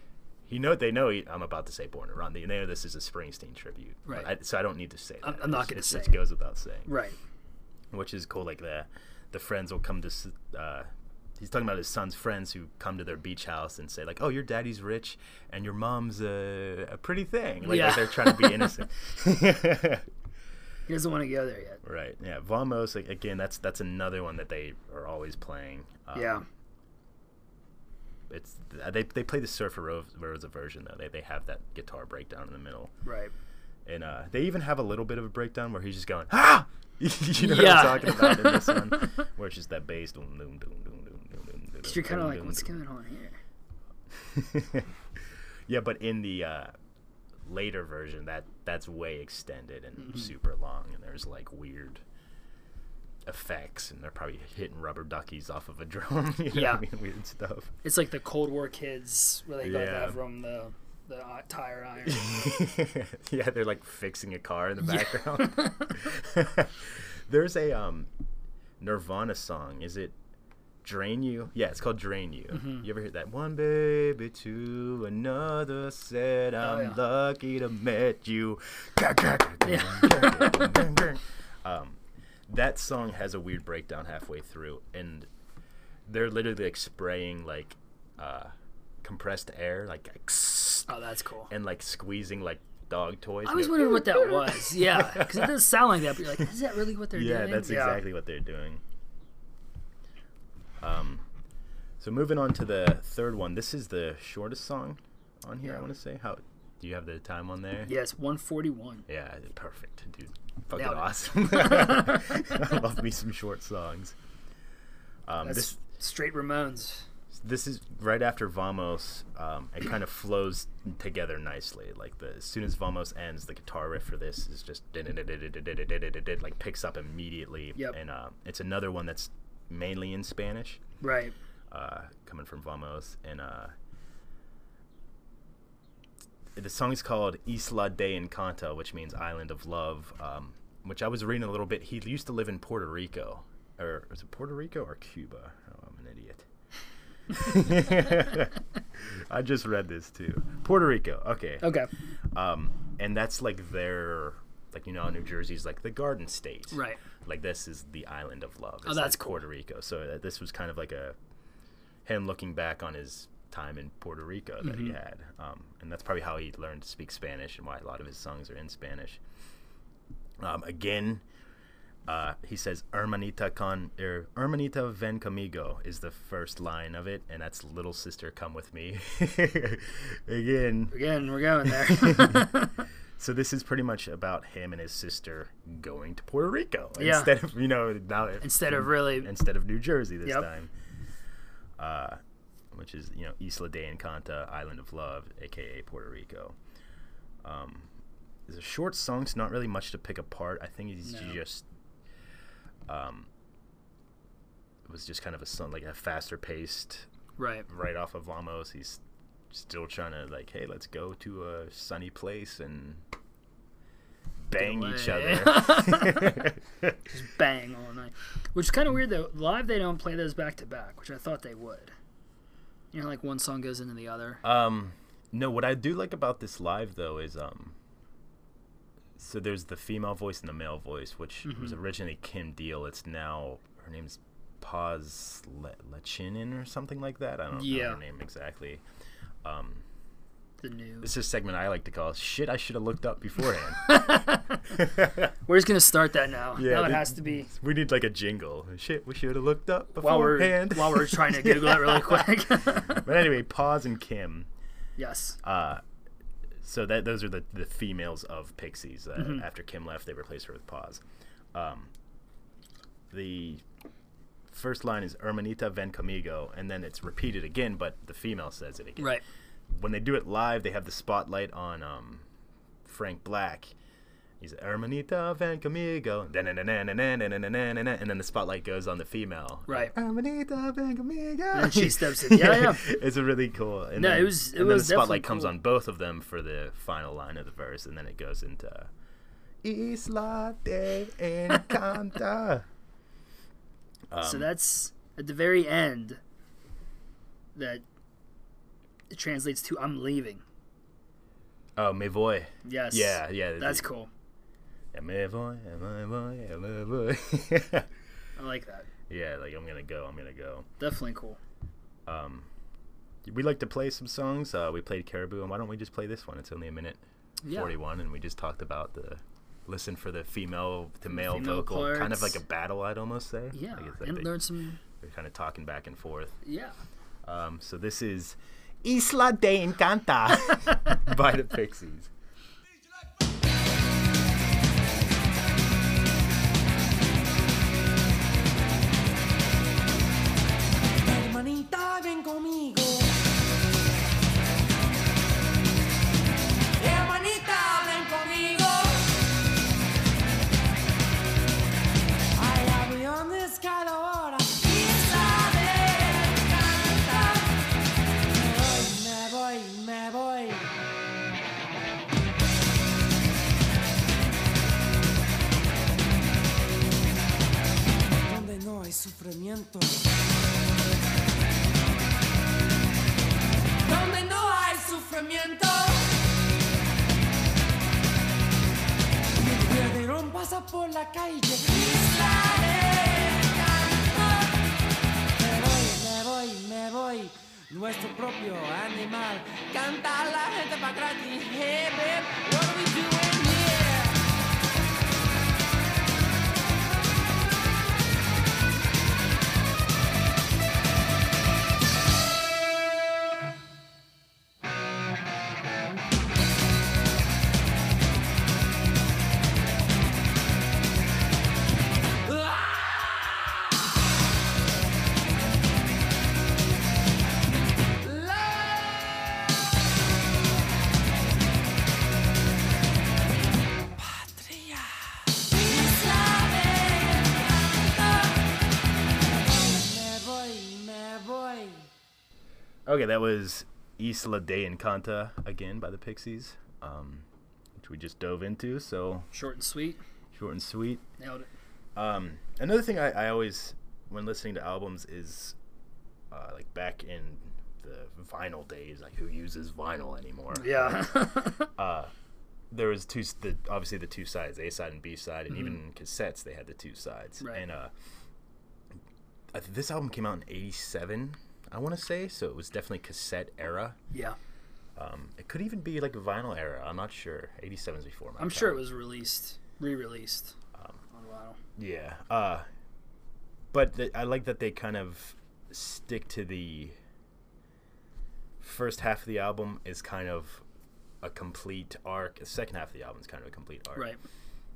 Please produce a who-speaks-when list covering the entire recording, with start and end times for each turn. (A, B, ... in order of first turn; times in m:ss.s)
0:00.4-0:06.9 A
0:05.2-0:06.2 B
0:06.9-0:07.2 B
0:07.9-0:20.1 A
0:17.6-0:18.7 B
0:20.9-0:21.8 B
0:21.8-0:26.4 A
0:26.1-0:26.4 B
0:28.3-0:32.9 A
0:33.0-0:33.3 B
0:33.9-0:42.7 A
0:37.4-0:39.2 B
0:41.8-0:43.4 B
0:44.1-0:44.9 A
0:45.7-0:46.7 A
0:47.4-0:52.0 A
0:50.0-0:50.3 B
0:53.2-0:57.8 A
0:56.5-0:56.8 B
0:57.8-1:02.6 B
0:59.6-1:00.2 A
1:02.0-1:08.1 A
1:04.8-1:06.0 B
1:08.8-1:10.2 A
1:10.8-1:25.3 A
1:12.5-1:12.8 B
1:16.6-1:17.0 B
1:19.6-1:20.8 B
1:26.1-1:28.5 A
1:29.0-1:30.9 A
1:30.9-1:31.5 B
1:31.5-1:35.5 A
1:33.5-1:38.0 B
1:37.1-1:38.8 A
1:40.8-1:41.2 A
1:42.0-1:47.9 A
1:47.9-1:49.0 B
1:49.1-1:54.2 A
1:50.8-1:52.6 B
1:55.3-1:55.8 A
1:55.4-1:57.0 B
1:57.3-2:10.8 A
2:11.0-2:11.4 B
2:11.7-2:13.7 A
2:16.6-2:26.5 A
2:27.3-2:31.8 A
2:31.6-2:31.9 B
2:32.3-2:41.2 A
2:36.7-2:37.0 B
2:38.8-2:39.4 B
2:42.0-2:49.2 A
2:44.6-2:45.0 B
2:50.4-2:51.2 A
2:52.1-3:01.0 A
3:00.9-3:02.8 B
3:01.6-3:02.5 A
3:03.2-3:10.7 A
3:07.0-3:07.3 B
3:08.4-3:09.3 B
3:11.8-3:12.2 A
3:12.7-3:16.6 A
3:17.4-3:17.9 A
3:18.5-3:21.6 A
3:21.0-3:21.4 B
3:22.9-3:23.3 A
3:24.9-3:27.1 A
3:27.4-3:27.7 B
3:27.7-3:33.0 A
3:34.4-3:37.0 A
3:34.6-3:36.5 B
3:37.1-3:41.9 B
3:42.9-3:44.4 B
3:44.4-3:47.8 A
3:49.2-3:58.8 A
3:51.4-3:51.8 B
3:57.5-3:58.0 B
3:59.4-3:59.8 A
4:00.6-4:01.1 B
4:01.0-4:05.3 A
4:03.8-4:04.8 B
4:05.5-4:07.5 B
4:06.6-4:14.5 A
4:10.0-4:13.0 B
4:15.0-4:15.4 B
4:15.4-4:15.8 A
4:16.6-4:21.0 A
4:19.2-4:19.4 B
4:21.5-4:21.9 A
4:23.1-4:23.6 A
4:24.5-4:32.3 A
4:29.0-4:29.2 B
4:32.8-4:33.8 A
4:34.4-4:48.9 A
4:39.7-4:39.9 B
4:41.5-4:42.8 B
4:44.0-4:45.6 B
4:49.6-4:52.6 A
4:54.1-4:54.5 A
4:54.2-4:56.2 B
4:57.6-4:57.8 B
4:59.1-5:00.4 B
5:01.8-5:03.9 A
5:02.6-5:04.1 B
5:04.9-5:07.9 A
5:08.4-5:08.9 B
5:09.1-5:10.7 A
5:10.8-5:11.4 B
5:12.1-5:12.5 A
5:13.2-5:24.3 A
5:17.4-5:17.7 B
5:21.1-5:22.4 B
5:23.5-5:24.8 B
5:25.0-5:26.4 A
5:26.4-5:26.8 B
5:27.2-5:32.1 A
5:41.0-5:43.2 C
5:46.8-5:49.2 C
5:52.4-5:57.6 C
5:58.3-6:00.7 C
6:08.2-6:10.1 C
6:13.8-6:16.2 C
6:19.3-6:24.6 C
6:25.4-6:34.2 C
6:52.3-6:53.6 C
6:58.0-6:59.6 C
7:04.0-7:08.5 C
7:09.4-7:11.9 C
7:12.9-7:17.3 A
7:17.8-7:19.3 A
7:19.3-7:20.0 B
7:20.3-7:21.0 A
7:21.2-7:21.5 B
7:22.0-7:25.6 A
7:26.3-7:32.1 A
7:30.5-7:31.7 B
7:32.7-7:37.9 A
7:35.5-7:35.8 B
7:39.5-7:44.0 A
7:44.1-7:44.4 B
7:45.0-7:48.8 A
7:48.4-7:50.6 B
7:50.8-7:51.0 A
7:51.1-7:51.6 B
7:51.8-7:52.7 A
7:53.7-7:57.0 A
7:58.6-8:00.6 A
8:01.2-8:04.1 A